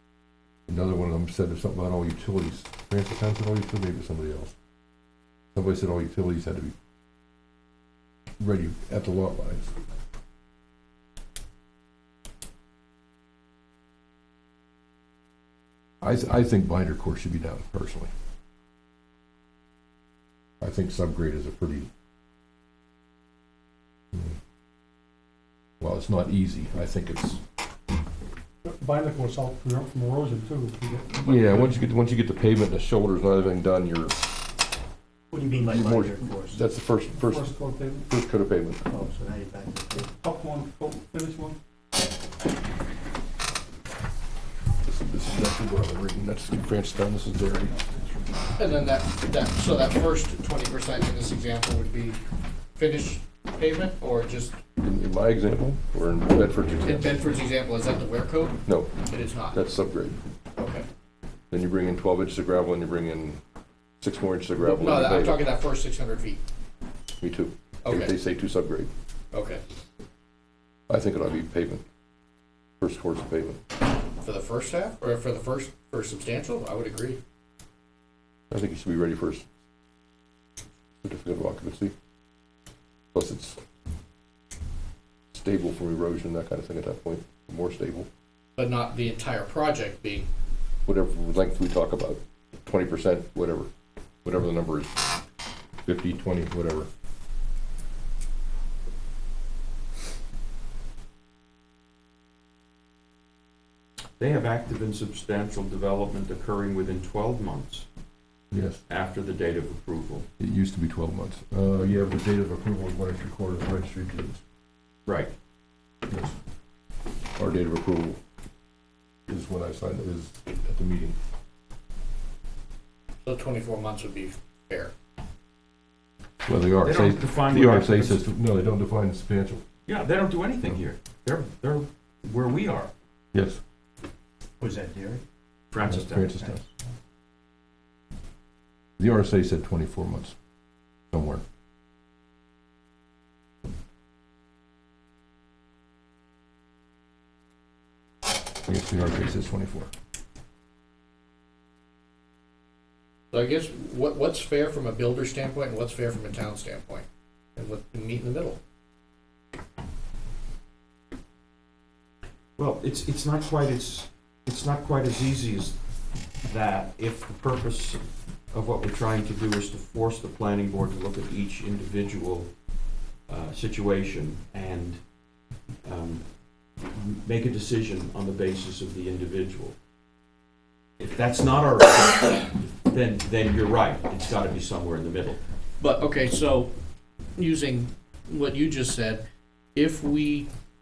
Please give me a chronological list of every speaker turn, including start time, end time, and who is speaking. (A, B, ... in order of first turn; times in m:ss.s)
0:00.7-0:04.5 A
0:05.5-0:06.7 A
0:08.4-0:09.7 A
0:16.0-0:18.1 A
0:20.6-0:21.9 A
0:25.8-0:27.4 A
0:28.6-0:31.7 B
0:31.1-0:34.2 A
0:35.3-0:36.6 C
0:35.7-0:37.5 A
0:37.2-0:38.1 B
0:38.1-0:38.8 A
0:38.9-0:40.0 C
0:39.9-0:41.6 B
0:44.8-0:47.8 A
0:48.6-0:52.2 D
0:52.8-0:54.6 D
0:54.8-0:57.2 A
0:56.8-0:59.6 D
0:58.6-0:59.0 A
0:59.5-1:00.2 A
1:00.6-1:00.8 D
1:01.5-1:03.4 A
1:04.0-1:05.4 A
1:04.6-1:06.4 D
1:07.2-1:08.9 A
1:07.8-1:08.2 D
1:09.3-1:09.6 D
1:10.9-1:11.8 A
1:12.8-1:13.6 A
1:14.2-1:17.2 D
1:18.5-1:19.5 A
1:21.0-1:21.9 A
1:23.1-1:23.6 A
1:25.3-1:28.1 A
1:28.6-1:30.3 D
1:30.8-1:33.7 A
1:34.2-1:35.0 A
1:35.8-1:36.9 A
1:44.2-1:47.8 E
1:48.5-1:48.8 A
1:48.9-1:50.2 E
1:50.4-1:54.4 A
1:55.1-1:55.3 E
1:56.1-1:56.3 A
1:57.4-1:58.2 A
1:59.3-2:01.2 A
2:03.2-2:04.9 D
2:06.4-2:09.6 A
2:06.8-2:08.2 E
2:09.9-2:12.9 E
2:13.3-2:13.6 A
2:14.6-2:15.2 C
2:15.7-2:16.4 E
2:15.8-2:16.6 A
2:19.0-2:20.3 A
2:21.1-2:21.4 A
2:28.7-2:29.9 A
2:33.3-2:37.0 D
2:37.6-2:38.6 D
2:42.6-2:45.8 E
2:46.4-2:48.0 E
2:48.5-2:52.5 E
2:53.3-2:55.0 E
2:55.8-2:56.2 E
2:56.8-2:59.7 E
3:01.0-3:05.4 E
3:05.8-3:06.7 D
3:07.4-3:09.2 D
3:09.7-3:10.4 D